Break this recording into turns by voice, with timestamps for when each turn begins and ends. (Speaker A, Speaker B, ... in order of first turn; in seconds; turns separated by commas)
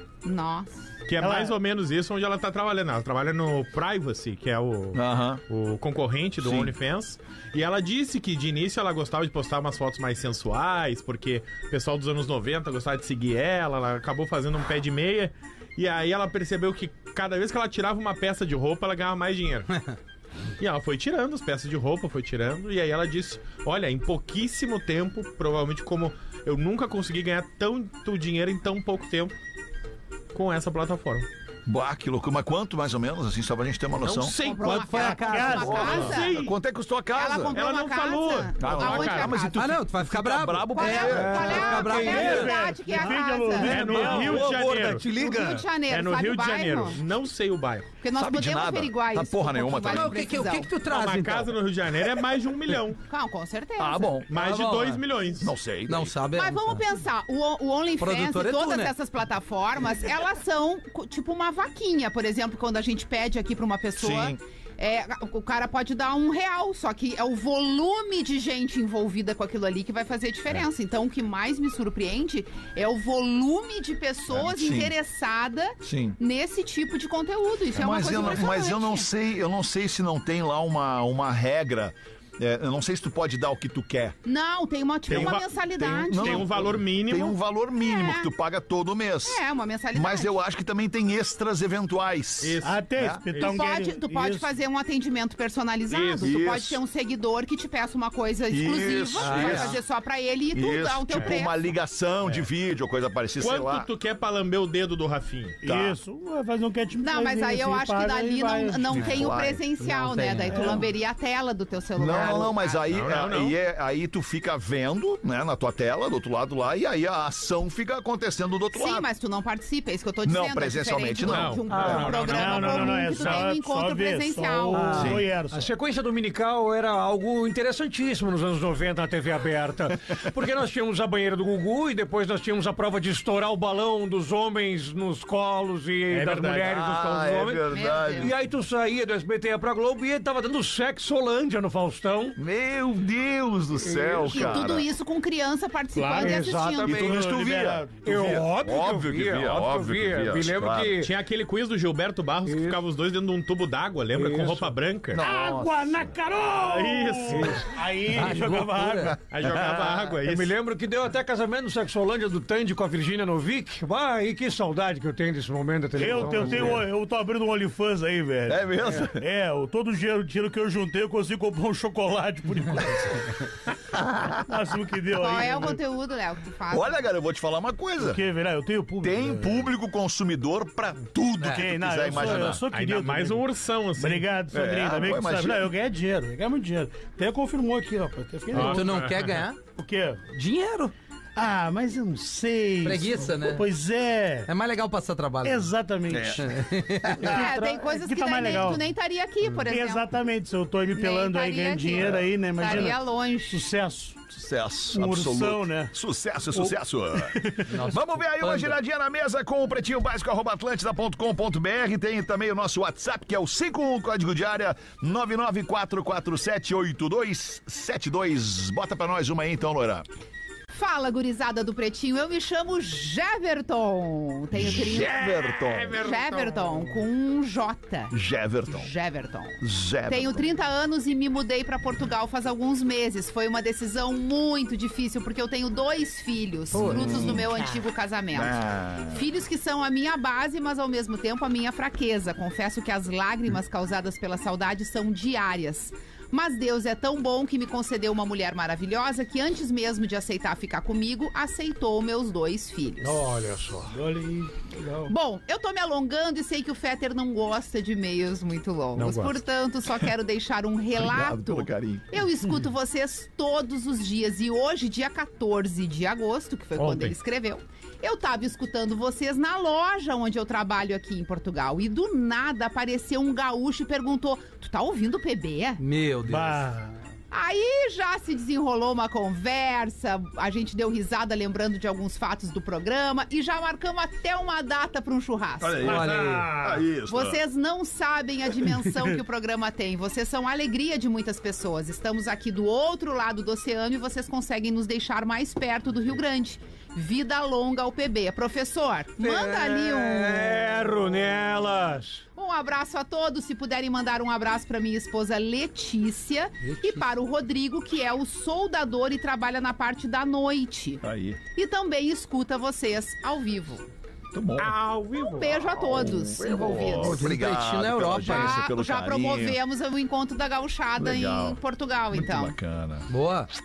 Speaker A: 0.2-0.7, Speaker B: 1.1-19.7, Speaker C: 1.2-1.6, Speaker D: 4.9-5.4, Speaker D: 6.4-6.7, Speaker B: 20.6-29.3, Speaker B: 30.3-31.3, Speaker D: 31.6-34.3, Speaker B: 34.0-36.5, Speaker A: 34.4-36.3, Speaker E: 34.6-36.1, Speaker C: 35.0-36.1, Speaker D: 35.7-37.6, Speaker A: 37.1-39.7, Speaker B: 37.5-39.4, Speaker D: 38.6-41.6, Speaker E: 39.5-42.5, Speaker A: 40.7-43.8, Speaker F: 41.0-45.6, Speaker C: 42.0-44.9, Speaker B: 43.6-45.1, Speaker A: 45.1-47.0, Speaker B: 45.8-47.9, Speaker A: 48.0-50.7, Speaker D: 48.1-50.2, Speaker E: 49.8-51.5, Speaker B: 50.9-53.0, Speaker A: 53.1-54.1, Speaker D: 53.8-54.3, Speaker B: 54.3-55.5, Speaker E: 54.3-55.0, Speaker D: 55.4-56.1, Speaker E: 55.9-56.8, Speaker A: 56.3-79.1, Speaker E: 58.0-58.9, Speaker D: 64.0-64.4, Speaker D: 74.3-74.9, Speaker D: 75.8-76.2, Speaker D: 77.7-84.2, Speaker A: 84.2-86.5, Speaker B: 85.1-85.5, Speaker D: 85.1-89.4, Speaker B: 86.0-87.3, Speaker A: 87.8-88.3, Speaker A: 89.2-90.4, Speaker D: 89.9-93.2, Speaker B: 92.4-93.6, Speaker C: 92.6-94.5, Speaker A: 93.4-101.6, Speaker B: 95.9-96.3, Speaker D: 96.2-96.8, Speaker D: 98.5-99.8, Speaker E: 99.2-99.8, Speaker D: 100.5-103.9, Speaker B: 103.4-105.9, Speaker C: 105.6-109.3, Speaker A: 107.0-112.9, Speaker D: 108.9-109.6, Speaker E: 109.8-110.8, Speaker D: 112.0-119.1, Speaker B: 112.9-113.5, Speaker A: 118.7-125.1, Speaker D: 120.2-122.1, Speaker B: 121.2-123.4, Speaker F: 121.7-122.2, Speaker C: 122.2-125.7, Speaker F: 124.7-142.4, Speaker D: 124.9-125.2, Speaker B: 136.1-136.8, Speaker D: 136.7-138.3, Speaker A: 137.7-138.3, Speaker D: 142.4-144.8, Speaker F: 143.8-144.6, Speaker A: 144.3-147.2, Speaker B: 145.9-147.3, Speaker F: 146.1-147.2, Speaker D: 146.8-151.0, Speaker C: 147.0-148.3, Speaker F: 148.0-151.1, Speaker B: 151.0-155.2, Speaker F: 152.4-152.8, Speaker F: 154.1-154.7, Speaker D: 155.1-156.1, Speaker C: 155.2-159.2, Speaker B: 156.6-157.6, Speaker F: 157.3-157.7, Speaker E: 158.1-159.1, Speaker F: 158.4-158.7, Speaker B: 159.2-160.5, Speaker D: 159.4-159.9, Speaker F: 160.1-166.9, Speaker C: 166.0-173.4, Speaker D: 168.5-169.2, Speaker D: 173.9-174.4, Speaker C: 174.4-175.8, Speaker A: 175.1-177.0, Speaker D: 176.7-178.2, Speaker C: 178.0-179.7, Speaker D: 179.0-182.6, Speaker E: 181.4-181.7, Speaker C: 181.5-183.4, Speaker B: 182.7-184.3, Speaker C: 184.0-188.9, Speaker D: 184.5-185.7, Speaker B: 188.5-189.4, Speaker E: 188.5-189.6, Speaker C: 189.7-190.2, Speaker E: 190.3-190.9, Speaker C: 191.4-194.5, Speaker E: 192.8-193.7, Speaker E: 194.5-195.7, Speaker C: 195.4-196.6, Speaker D: 196.1-197.3, Speaker E: 196.4-197.4, Speaker C: 197.2-198.8, Speaker A: 197.3-200.1, Speaker C: 199.7-204.2, Speaker A: 200.9-203.6, Speaker D: 204.3-220.0, Speaker C: 204.9-205.9, Speaker C: 206.5-207.7, Speaker E: 207.7-208.8, Speaker A: 220.7-225.2, Speaker D: 224.5-226.0, Speaker B: 224.9-227.0, Speaker A: 225.9-228.1, Speaker D: 228.1-228.9, Speaker A: 228.7-253.2, Speaker D: 229.6-230.4, Speaker D: 236.7-237.5, Speaker D: 238.3-239.2, Speaker F: 253.0-254.0, Speaker C: 253.9-254.6, Speaker F: 254.8-255.1, Speaker A: 255.1-275.8, Speaker B: 259.0-259.3, Speaker D: 260.9-262.2, Speaker B: 266.8-267.1, Speaker E: 275.8-276.7, Speaker C: 276.2-276.9, Speaker A: 277.3-285.9, Speaker D: 285.6-287.4, Speaker E: 285.8-286.6, Speaker C: 285.9-286.4, Speaker A: 287.1-300.7, Speaker F: 299.2-302.2, Speaker A: 302.4-311.0, Speaker E: 306.6-307.1, Speaker D: 311.0-311.4, Speaker A: 311.5-313.9, Speaker D: 314.3-314.8, Speaker B: 314.6-315.6, Speaker A: 315.2-317.2, Speaker D: 315.8-319.6, Speaker F: 316.8-317.3, Speaker E: 317.0-318.7, Speaker A: 318.1-322.6, Speaker D: 321.0-321.6, Speaker D: 322.1-323.1, Speaker E: 323.1-323.5